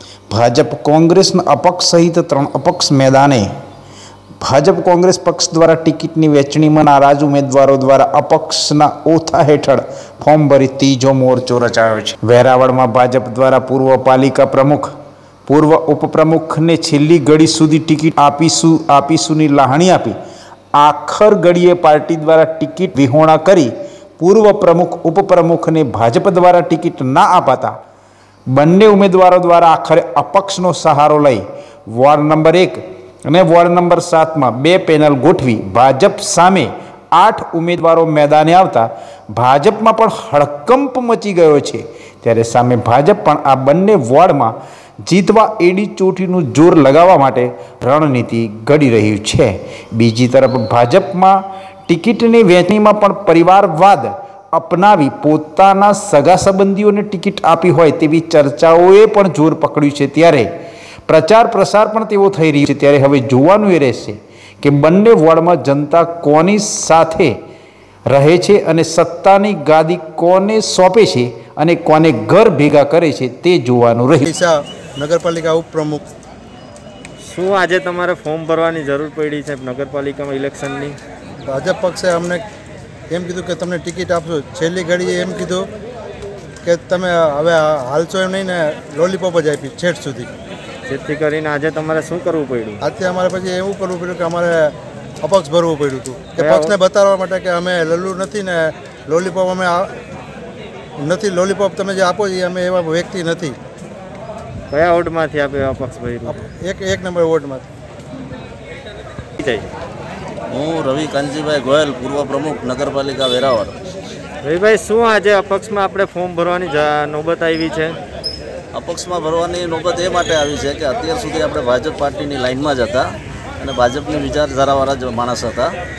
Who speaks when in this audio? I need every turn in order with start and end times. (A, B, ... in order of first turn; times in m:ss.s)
0:00.3-0:03.5 A
0:04.4-0:14.9 A
0:15.5-0:20.2 A
0:20.8-0:27.8 A
0:28.5-1:00.5 A
1:01.1-1:07.4 A
1:08.1-1:14.3 A
1:14.2-1:16.0 B
1:17.2-1:21.0 C
1:21.5-1:22.4 B
1:23.1-1:25.7 B
1:26.6-1:30.3 B
1:30.9-1:32.8 C
1:32.8-1:39.9 B
1:36.4-1:36.8 C
1:41.0-1:43.6 B
1:44.7-1:46.4 C
1:46.3-1:47.7 B
1:49.4-1:49.7 C
1:50.5-1:53.8 D
1:54.4-1:58.0 C
1:58.7-2:05.8 D